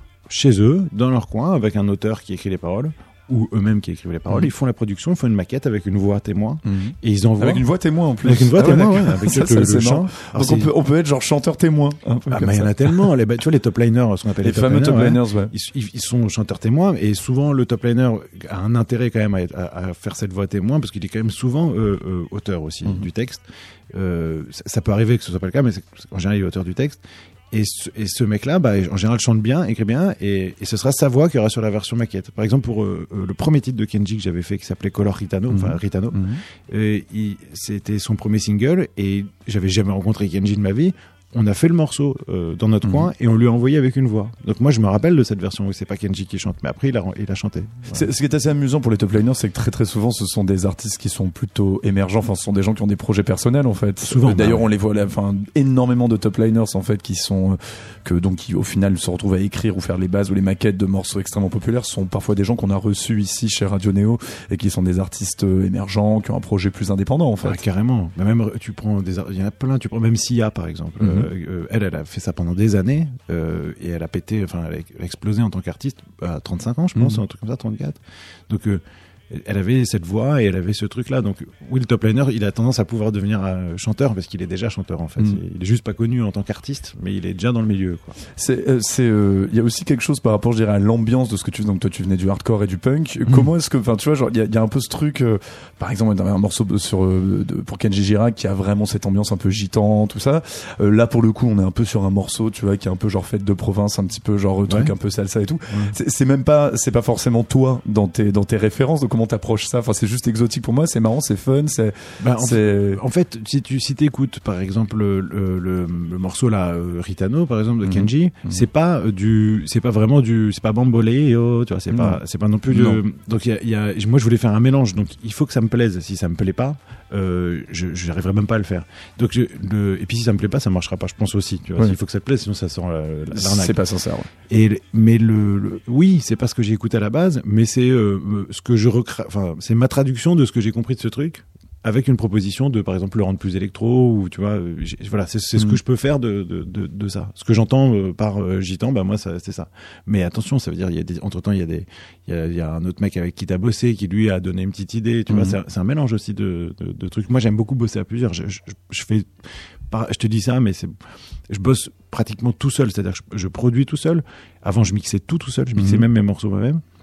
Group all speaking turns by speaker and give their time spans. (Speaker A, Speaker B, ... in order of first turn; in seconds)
Speaker A: 0.3-7.7, 8.2-10.7, 12.3-27.0, 27.5-48.1, 54.0-54.7, 67.4-88.2, 105.7-106.0, 112.2-133.8, 134.5-160.9, 161.5-166.8
Speaker B: 6.6-13.1, 14.4-15.5, 35.5-36.4, 42.8-43.1, 47.9-67.6, 71.0-71.3, 77.0-77.2, 88.3-113.0, 117.8-118.7, 121.9-123.0, 133.3-134.3, 155.3-155.6, 165.8-166.0